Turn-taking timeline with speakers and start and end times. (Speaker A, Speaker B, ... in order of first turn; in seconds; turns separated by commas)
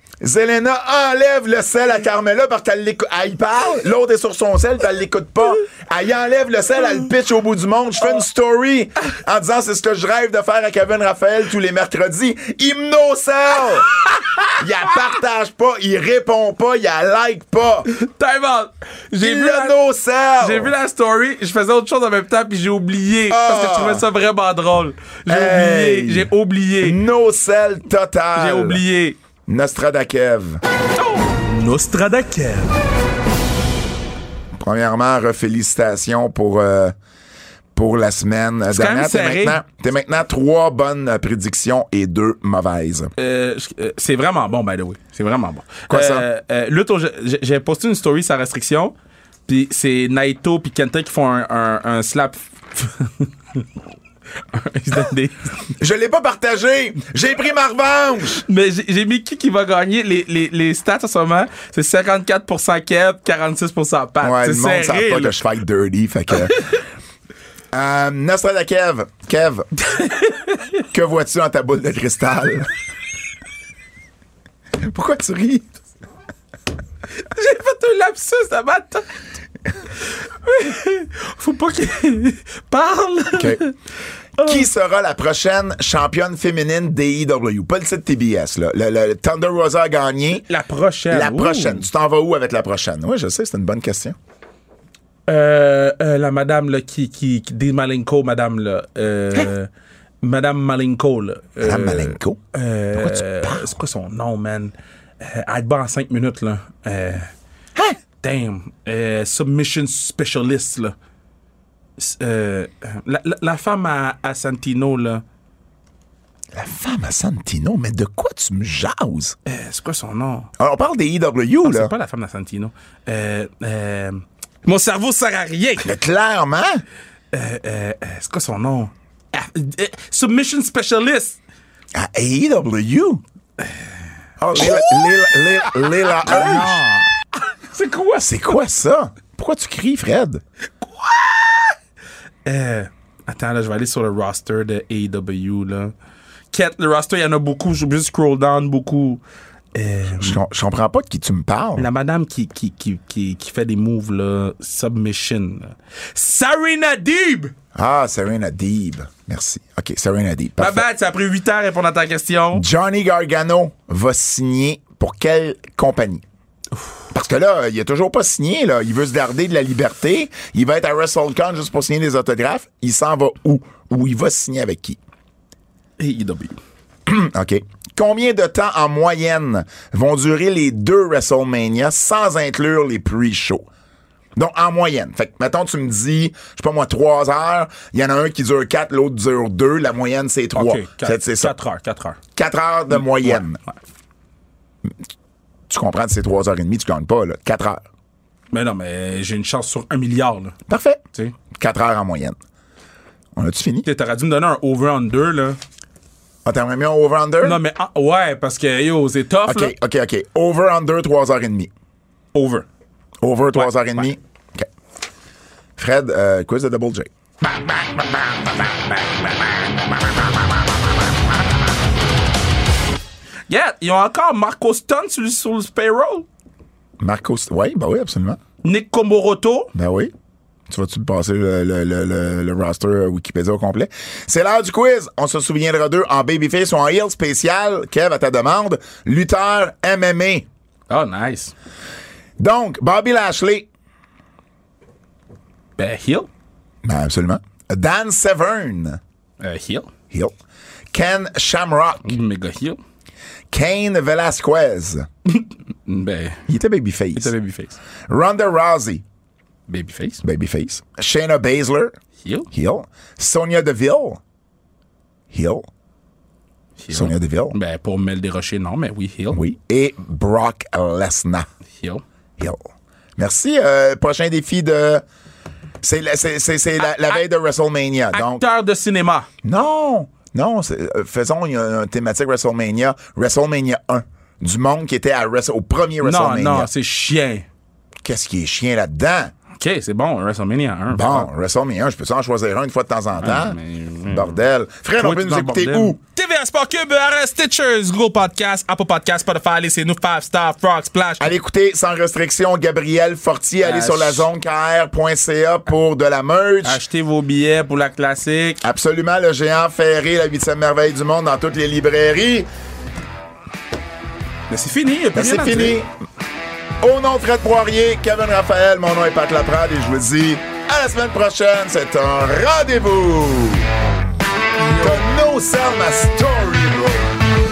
Speaker A: 0.2-13.9, Speaker B: 13.7-14.6, Speaker A: 14.6-17.9, Speaker B: 17.9-19.8, Speaker A: 19.2-20.7, Speaker B: 20.4-27.0, Speaker A: 23.3-24.1, Speaker A: 25.3-26.3, Speaker A: 26.8-28.8, Speaker B: 28.4-29.2, Speaker A: 29.5-30.6, Speaker B: 31.0-32.8, Speaker A: 34.6-37.0, Speaker A: 37.8-43.1, Speaker B: 38.7-39.6, Speaker B: 43.2-48.9, Speaker A: 45.9-46.3, Speaker B: 49.5-53.6, Speaker B: 54.5-55.7, Speaker A: 55.8-58.4, Speaker B: 58.5-65.3, Speaker A: 64.2-66.8, Speaker A: 67.7-69.7, Speaker B: 69.9-70.7, Speaker A: 70.9-72.7, Speaker A: 74.8-75.7, Speaker B: 77.2-79.1, Speaker B: 80.0-83.8, Speaker A: 83.3-83.6, Speaker B: 84.4-84.6, Speaker A: 84.4-90.4, Speaker B: 90.4-91.8, Speaker A: 91.1-94.2, Speaker B: 95.3-99.7, Speaker B: 100.2-107.3, Speaker A: 101.6-102.4, Speaker A: 103.0-103.8, Speaker B: 108.2-110.9, Speaker B: 112.0-115.2, Speaker A: 116.5-119.4, Speaker B: 119.5-120.5, Speaker A: 120.6-121.9, Speaker B: 121.6-125.9, Speaker A: 125.8-126.8, Speaker B: 127.3-131.4, Speaker A: 131.9-133.2, Speaker A: 134.4-136.8, Speaker B: 134.6-138.4, Speaker A: 138.2-140.4, Speaker B: 140.8-141.8, Speaker B: 142.4-145.9, Speaker B: 146.5-149.2, Speaker B: 149.7-150.4, Speaker A: 150.2-151.9, Speaker B: 151.8-157.5, Speaker A: 157.8-160.8, Speaker B: 160.6-162.6, Speaker A: 162.5-166.2, Speaker A: 167.1-175.0, Speaker B: 176.0-176.6, Speaker A: 177.1-183.7, Speaker A: 184.4-191.6, Speaker B: 190.5-192.2, Speaker A: 192.3-193.6, Speaker B: 192.9-193.4, Speaker A: 195.7-197.8, Speaker B: 198.5-200.6, Speaker A: 200.7-202.4, Speaker A: 203.4-203.9, Speaker B: 203.8-205.6, Speaker A: 206.4-207.6, Speaker B: 207.4-209.7, Speaker A: 209.5-211.7, Speaker B: 212.3-212.7, Speaker A: 213.2-214.7, Speaker B: 213.6-214.0, Speaker A: 215.8-217.1, Speaker B: 217.4-220.2, Speaker B: 223.5-226.3, Speaker A: 227.0-228.4, Speaker B: 228.6-229.7, Speaker A: 229.8-230.1, Speaker A: 230.7-240.5, Speaker B: 240.9-241.5, Speaker A: 242.4-243.7, Speaker B: 245.8-246.3, Speaker A: 246.8-249.0, Speaker B: 249.4-249.9, Speaker A: 250.9-252.2, Speaker B: 252.1-252.8, Speaker A: 253.5-255.1, Speaker B: 255.3-256.4, Speaker A: 256.5-257.3, Speaker B: 257.2-257.8, Speaker A: 258.1-259.0, Speaker B: 259.7-260.2, Speaker A: 260.2-262.0, Speaker B: 262.2-262.5, Speaker A: 262.5-264.2, Speaker A: 265.3-265.7, Speaker B: 266.8-269.4, Speaker A: 266.9-267.6, Speaker A: 269.3-271.5, Speaker A: 272.4-272.6, Speaker A: 273.2-275.0, Speaker A: 275.8-278.4, Speaker B: 276.8-277.2, Speaker B: 278.1-279.3, Speaker A: 279.4-286.7, Speaker B: 286.0-287.5, Speaker A: 288.0-289.3, Speaker B: 289.6-291.3, Speaker A: 290.9-296.0, Speaker B: 293.2-294.4, Speaker B: 295.0-301.3, Speaker A: 301.2-306.8, Speaker B: 303.6-304.3, Speaker B: 306.6-308.6, Speaker A: 308.6-312.5, Speaker B: 314.5-315.8, Speaker A: 315.1-315.9, Speaker A: 316.8-323.7, Speaker B: 324.6-325.0, Speaker A: 324.7-327.2